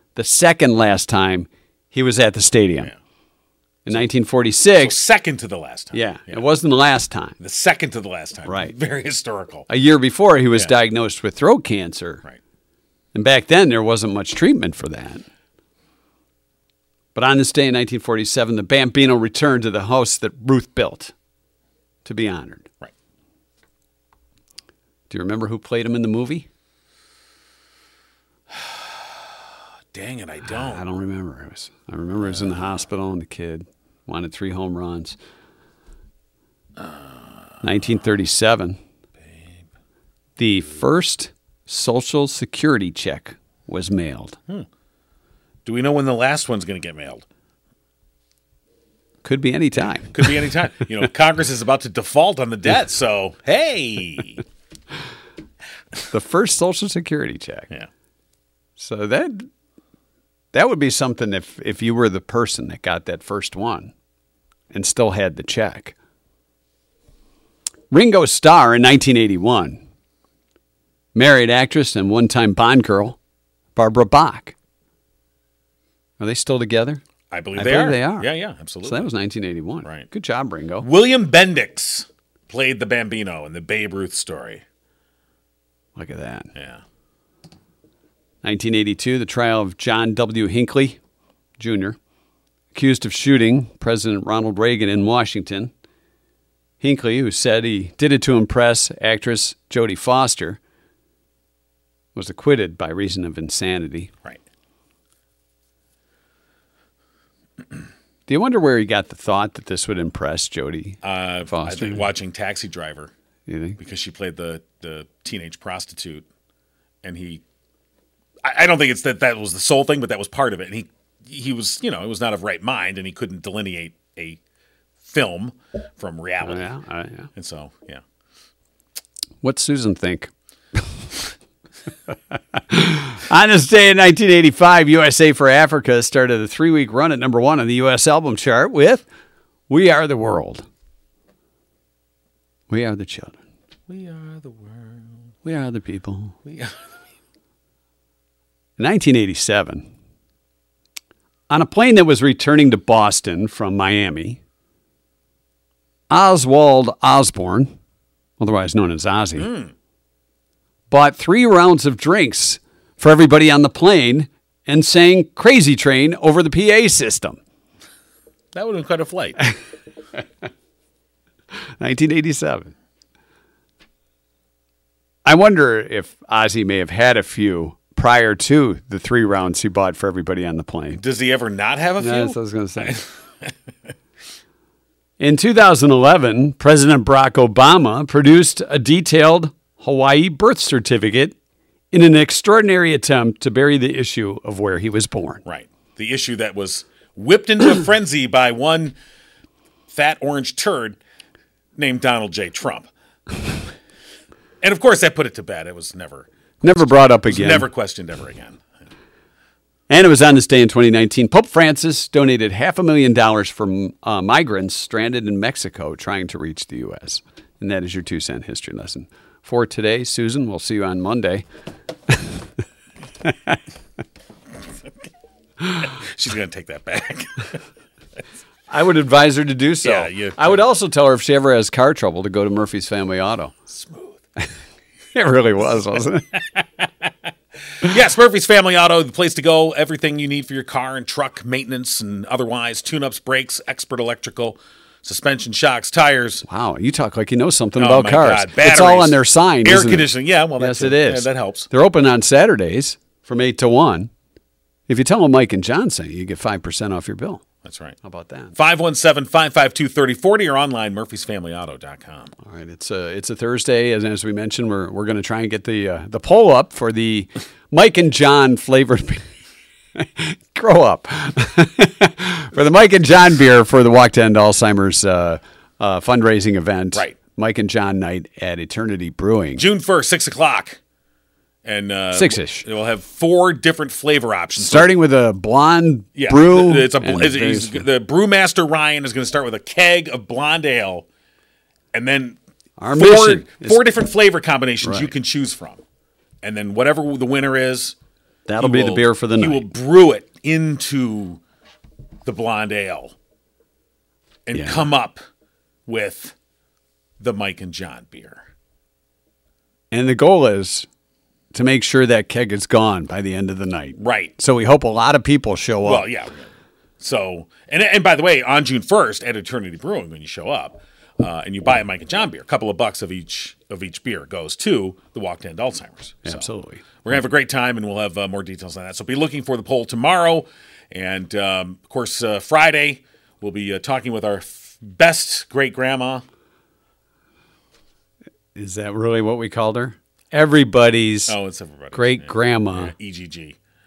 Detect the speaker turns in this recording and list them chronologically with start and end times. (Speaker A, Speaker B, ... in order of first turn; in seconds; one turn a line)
Speaker A: 0.1-2.9
Speaker A: 3.9-5.0
Speaker B: 4.8-6.4
Speaker A: 5.9-7.4
Speaker B: 7.4-9.7
Speaker A: 8.5-8.7
Speaker A: 9.7-12.2
Speaker A: 13.1-15.2
Speaker A: 17.1-21.1
Speaker A: 22.1-22.7
Speaker A: 25.1-26.5
Speaker B: 28.5-28.9
Speaker B: 29.9-30.8
Speaker A: 30.5-35.2
Speaker B: 36.8-37.6
Speaker A: 37.6-38.8
Speaker A: 40.4-44.4
Speaker B: 45.6-47.2
Speaker A: 49.2-50.3
Speaker B: 50.1-54.5
Speaker A: 56.1-57.7
Speaker A: 58.8-59.5
Speaker A: 60.5-63.9
Speaker A: 64.7-66.0
Speaker A: 67.9-69.8
Speaker A: 71.2-73.2
Speaker A: 73.8-74.5
Speaker A: 76.2-77.0
Speaker B: 77.3-79.1
Speaker A: 77.6-78.3
Speaker A: 78.8-80.9
Speaker B: 80.8-84.6
Speaker A: 86.0-86.5
Speaker B: 86.5-86.8
Speaker A: 88.4-91.0
Speaker A: 91.6-92.0
Speaker A: 92.7-95.7
Speaker A: 96.8-100.6
Speaker A: 102.2-104.1
Speaker A: 108.3-112.1
Speaker B: 111.0-113.1
Speaker A: 113.5-113.8
Speaker B: 113.8-116.2
Speaker B: 117.0-117.4
Speaker B: 118.4-124.4
Speaker B: 125.0-126.7
Speaker A: 126.4-127.3
Speaker B: 127.4-128.0
Speaker A: 129.4-130.8
Speaker A: 132.5-139.1
Speaker A: 139.7-140.7
Speaker A: 142.7-143.4
Speaker B: 143.9-145.1
Speaker A: 145.4-146.4
Speaker B: 146.5-146.8
Speaker A: 148.8-149.9
Speaker A: 151.5-154.4
Speaker A: 156.1-157.8
Speaker A: 158.4-159.5
Speaker B: 159.4-159.7
Speaker A: 160.9-167.4
Speaker B: 168.5-169.5
Speaker A: 171.8-172.7
Speaker A: 175.2-181.0
Speaker B: 181.0-183.5
Speaker A: 182.0-183.0
Speaker A: 185.2-191.3
Speaker A: 191.9-195.4
Speaker B: 195.5-198.9
Speaker B: 199.9-201.0
Speaker B: 201.8-202.9
Speaker B: 204.6-208.6
Speaker A: 206.6-207.7
Speaker A: 209.9-221.4
Speaker A: 222.1-222.4
Speaker A: 223.2-223.6
Speaker B: 225.8-227.6
Speaker A: 228.7-233.5
Speaker B: 229.8-230.6
Speaker B: 233.7-234.2
Speaker A: 235.1-236.4
Speaker B: 237.8-246.4
Speaker A: 246.5-254.1
Speaker B: 247.8-251.7
Speaker A: 254.9-257.4
Speaker B: 257.6-258.0
Speaker A: 258.0-258.6
Speaker B: 258.6-262.3
Speaker A: 262.4-269.2
Speaker A: 270.0-279.6
Speaker B: 279.6-280.8
Speaker B: 281.6-284.9
Speaker A: 282.1-282.6
Speaker A: 284.6-287.9
Speaker B: 286.2-291.1
Speaker B: 291.9-292.4
Speaker A: 292.8-293.8
Speaker B: 292.9-295.8
Speaker A: 294.8-295.1
Speaker B: 296.4-298.0
Speaker A: 298.5-299.6
Speaker B: 298.6-301.4
Speaker B: 302.2-303.1
Speaker B: 304.5-305.2
Speaker A: 304.5-304.9
Speaker B: 305.9-306.3
Speaker B: 307.2-308.4
Speaker A: 309.9-310.9
Speaker A: 311.5-316.1
Speaker B: 314.0-314.3
Speaker B: 315.8-316.5
Speaker B: 317.0-326.5
Speaker A: 326.2-326.9
Speaker B: 327.0-336.2
Speaker A: 338.6-341.4
Speaker B: 341.3-343.6
Speaker A: 341.9-342.9